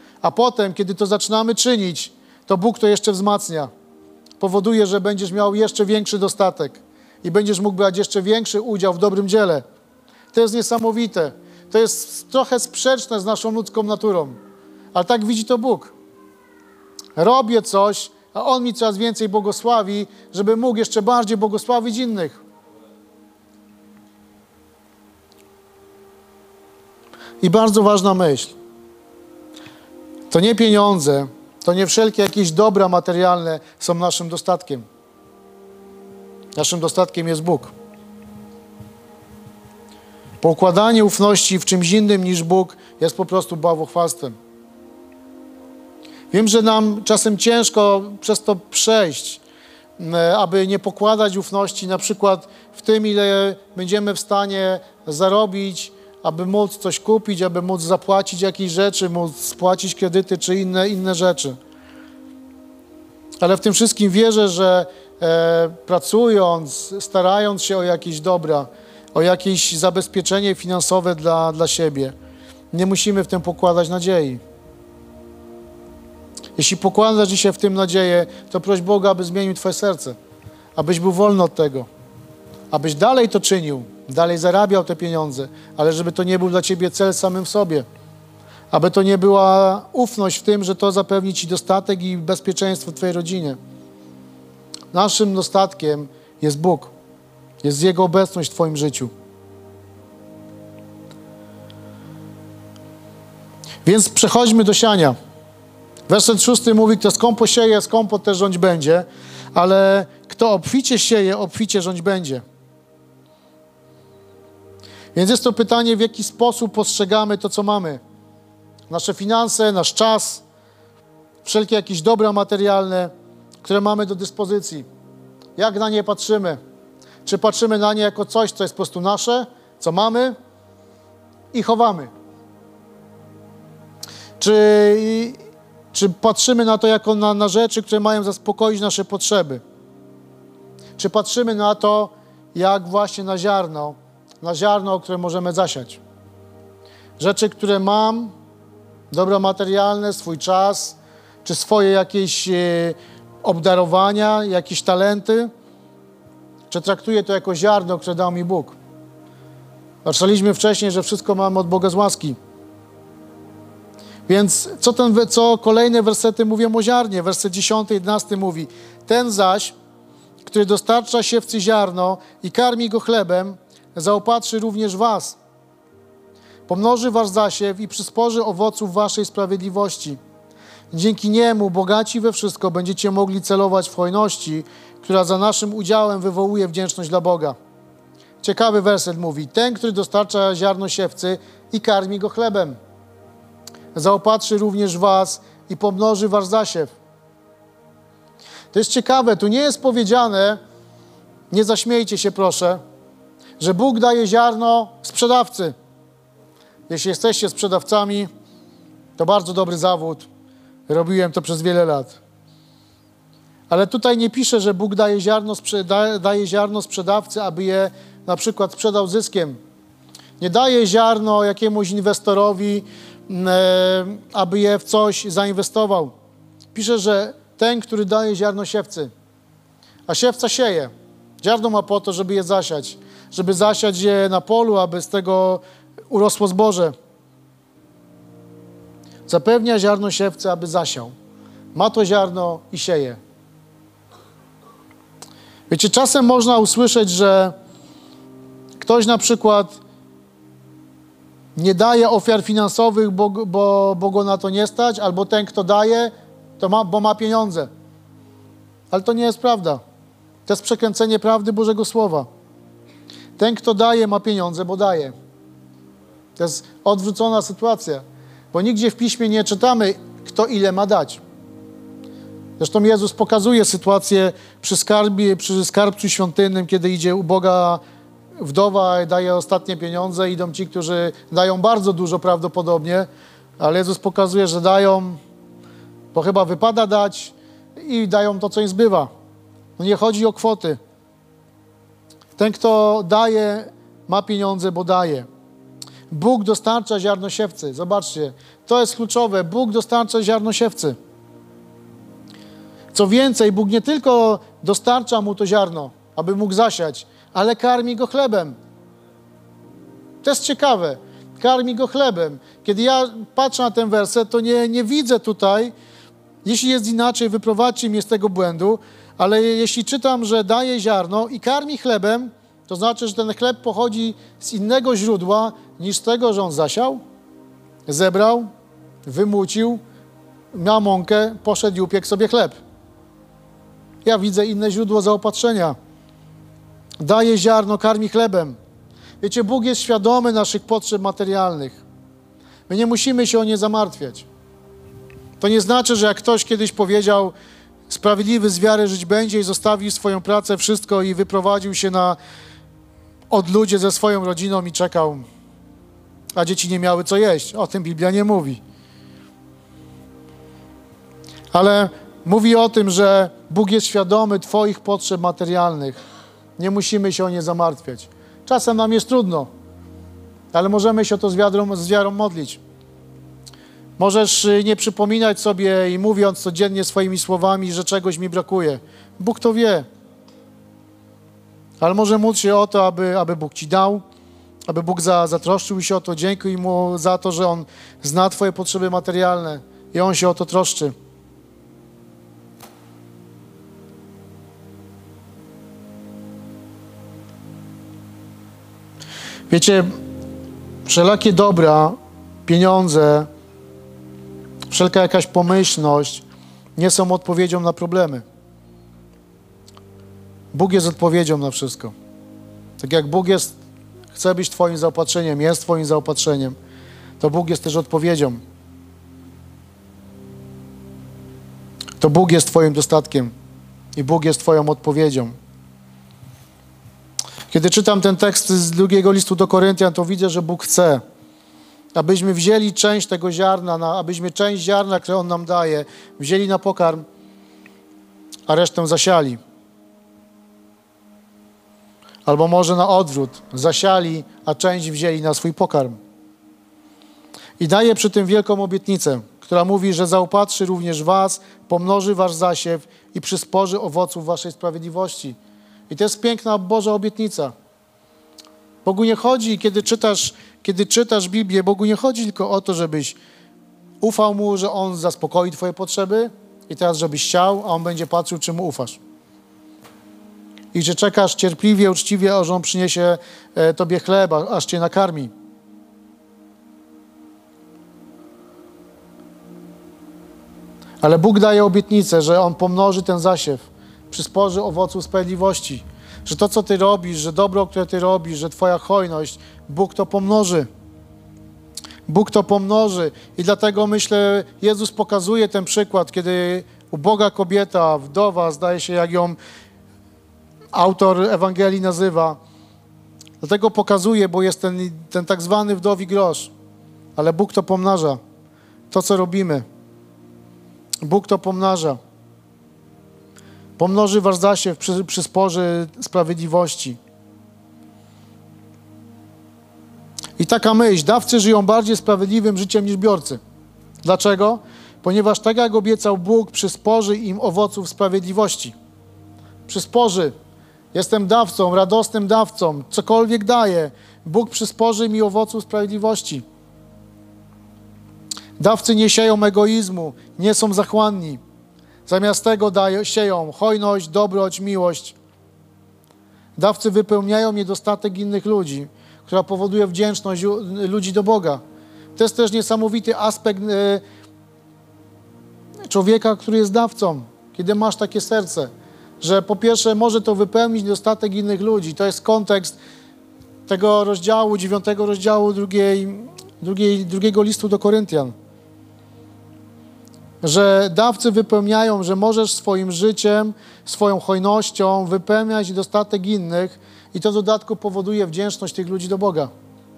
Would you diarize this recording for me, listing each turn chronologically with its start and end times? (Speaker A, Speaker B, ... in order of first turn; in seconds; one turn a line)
Speaker A: 0.2-3.7
Speaker A: 4.4-9.6
Speaker A: 10.3-14.4
Speaker A: 14.9-15.9
Speaker A: 17.1-22.4
Speaker A: 27.4-28.5
Speaker A: 30.3-34.9
Speaker A: 36.5-37.7
Speaker A: 40.4-44.4
Speaker A: 46.3-49.4
Speaker A: 50.0-61.6
Speaker A: 63.4-72.1
Speaker A: 72.7-74.4
Speaker A: 76.6-80.2
Speaker A: 80.8-81.9
Speaker A: 82.7-87.9
Speaker A: 88.7-93.6
Speaker A: 94.9-96.9
Speaker A: 97.6-99.1
Speaker A: 103.8-105.2
Speaker A: 106.1-112.4
Speaker A: 115.1-118.0
Speaker A: 118.9-120.4
Speaker A: 121.4-123.1
Speaker A: 123.6-124.9
Speaker A: 125.6-126.6
Speaker A: 127.2-130.3
Speaker A: 131.5-132.1
Speaker A: 134.4-135.4
Speaker A: 135.9-139.6
Speaker A: 141.0-146.0
Speaker A: 147.2-148.3
Speaker A: 149.1-155.5
Speaker A: 156.7-158.8
Speaker A: 160.1-162.4
Speaker A: 164.3-169.7
Speaker A: 170.4-175.4
Speaker A: 176.7-180.2
Speaker A: 180.9-187.6
Speaker A: 188.4-192.8
Speaker A: 193.9-196.9
Speaker A: 198.7-200.6
Speaker A: 201.5-202.8
Speaker A: 203.6-205.7
Speaker A: 206.9-208.3
Speaker A: 209.2-210.3
Speaker A: 210.9-212.2
Speaker A: 213.7-219.6
Speaker A: 220.4-226.1
Speaker A: 226.7-229.1
Speaker A: 230.1-236.9
Speaker A: 239.3-241.1
Speaker A: 241.7-243.2
Speaker A: 245.7-247.5
Speaker A: 248.8-249.8
Speaker A: 251.6-257.7
Speaker A: 258.9-259.8
Speaker A: 260.4-262.3
Speaker A: 263.4-265.1
Speaker A: 266.4-271.2
Speaker A: 272.6-277.8
Speaker A: 278.4-283.1
Speaker A: 283.6-285.2
Speaker A: 286.1-289.1
Speaker A: 289.8-290.8
Speaker A: 292.4-295.3
Speaker A: 296.1-301.0
Speaker A: 302.9-308.6
Speaker A: 310.2-315.7
Speaker A: 316.4-327.0
Speaker A: 327.9-328.5
Speaker A: 329.1-329.8
Speaker A: 330.5-332.6
Speaker A: 334.0-335.8
Speaker A: 337.0-338.6
Speaker A: 339.2-341.8
Speaker A: 342.7-344.3
Speaker A: 345.4-347.3
Speaker A: 347.9-352.2
Speaker A: 353.3-355.2
Speaker A: 356.4-358.6
Speaker A: 361.5-366.0
Speaker A: 366.6-369.5
Speaker A: 370.5-372.6
Speaker A: 374.0-379.9
Speaker A: 381.8-384.0
Speaker A: 384.7-390.9
Speaker A: 399.5-399.9
Speaker A: 400.9-403.3
Speaker A: 404.7-406.2
Speaker A: 406.8-408.2
Speaker A: 410.5-411.9
Speaker A: 412.8-413.6
Speaker A: 414.1-416.6
Speaker A: 417.2-418.4
Speaker A: 422.0-423.3
Speaker A: 423.9-425.4
Speaker A: 427.5-431.0
Speaker A: 431.9-437.1
Speaker A: 438.5-439.4
Speaker A: 442.2-446.0
Speaker A: 447.6-455.4
Speaker A: 455.9-457.5
Speaker A: 458.9-463.2
Speaker A: 464.0-469.0
Speaker A: 470.7-475.3
Speaker A: 481.0-490.7
Speaker A: 492.1-499.4
Speaker A: 500.7-502.4
Speaker A: 503.4-506.5
Speaker A: 507.1-508.2
Speaker A: 508.9-509.6
Speaker A: 511.0-512.0
Speaker A: 513.8-517.0
Speaker A: 520.4-523.4
Speaker A: 524.0-528.7
Speaker A: 529.7-530.3
Speaker A: 530.9-536.4
Speaker A: 538.6-541.4
Speaker A: 542.1-545.1
Speaker A: 546.6-551.6
Speaker A: 552.1-554.0
Speaker A: 555.9-562.8
Speaker A: 563.7-568.3
Speaker A: 570.4-579.5